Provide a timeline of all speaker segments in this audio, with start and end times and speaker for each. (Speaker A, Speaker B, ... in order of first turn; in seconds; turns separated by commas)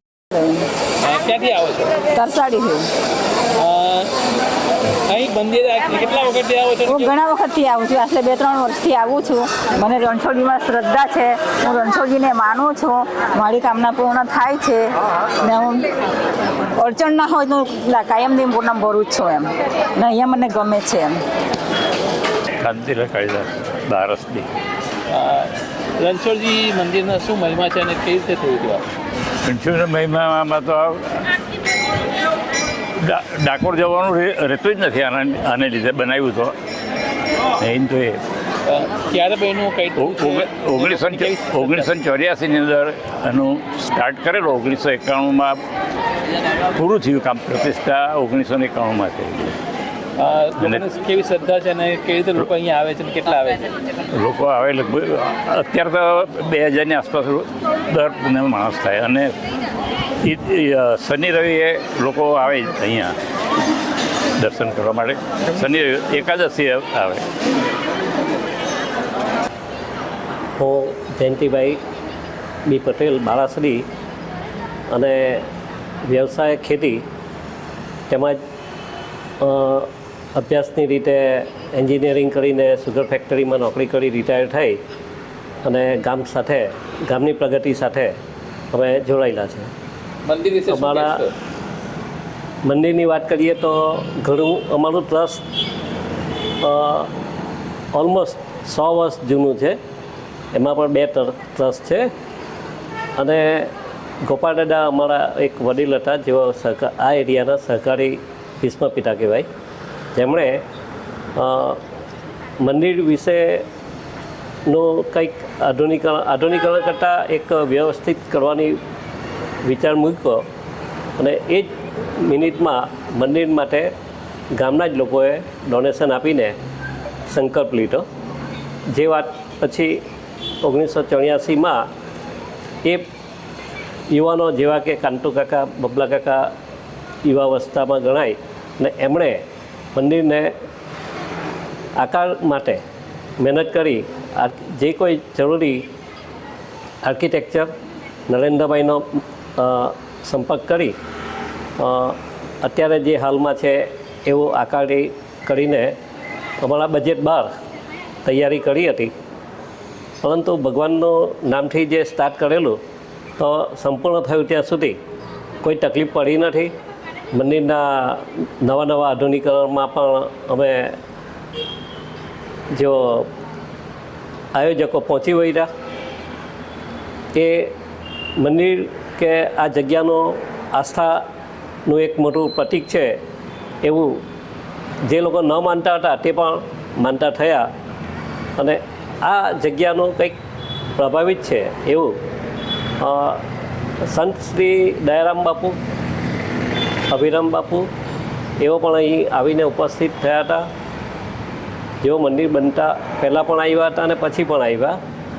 Speaker A: 0.3-0.6, Speaker B: 1.0-2.1, Speaker A: 2.1-2.9, Speaker B: 3.6-4.1, Speaker B: 5.0-7.2, Speaker A: 6.9-15.9, Speaker A: 16.8-21.2, Speaker C: 22.6-24.5, Speaker B: 25.1-28.9, Speaker C: 29.4-31.2, Speaker C: 33.0-36.5, Speaker C: 37.6-38.2, Speaker B: 38.7-41.9, Speaker C: 40.0-45.6, Speaker C: 46.7-49.6, Speaker B: 50.2-53.7, Speaker C: 50.5-50.9, Speaker C: 54.1-59.4, Speaker C: 60.2-63.1, Speaker C: 64.4-67.2, Speaker D: 70.6-71.8, Speaker D: 72.7-73.8, Speaker D: 74.9-75.5, Speaker D: 76.0-77.0, Speaker D: 78.1-78.4, Speaker D: 79.4-84.8, Speaker D: 85.6-88.2, Speaker D: 88.7-89.7, Speaker B: 90.2-91.3, Speaker D: 90.7-91.2, Speaker D: 92.6-95.4, Speaker D: 96.6-97.1, Speaker D: 97.9-99.8, Speaker D: 100.5-102.1, Speaker D: 103.2-103.7, Speaker D: 104.2-109.5, Speaker D: 110.1-110.6, Speaker D: 111.3-111.8, Speaker D: 112.6-113.7, Speaker D: 114.7-118.8, Speaker D: 119.6-120.5, Speaker D: 121.2-123.9, Speaker D: 124.5-126.6, Speaker D: 127.3-128.1, Speaker D: 128.9-130.0, Speaker D: 130.6-131.8, Speaker D: 134.1-136.5, Speaker D: 137.2-140.5, Speaker D: 142.0-142.8, Speaker D: 143.4-145.9, Speaker D: 147.0-147.7, Speaker D: 148.3-150.9, Speaker D: 151.8-155.9, Speaker D: 156.6-157.5, Speaker D: 158.2-159.1, Speaker D: 160.2-162.8, Speaker D: 163.4-165.0, Speaker D: 165.6-166.7, Speaker D: 167.3-171.0, Speaker D: 172.7-173.3, Speaker D: 174.5-175.7, Speaker D: 177.3-177.7, Speaker D: 178.4-181.2, Speaker D: 181.9-183.2, Speaker D: 183.8-184.2, Speaker D: 185.1-187.7, Speaker D: 188.6-190.4, Speaker D: 191.0-192.1, Speaker D: 193.0-193.4, Speaker D: 194.0-195.8, Speaker D: 197.1-197.9, Speaker D: 198.6-200.7, Speaker D: 202.0-205.0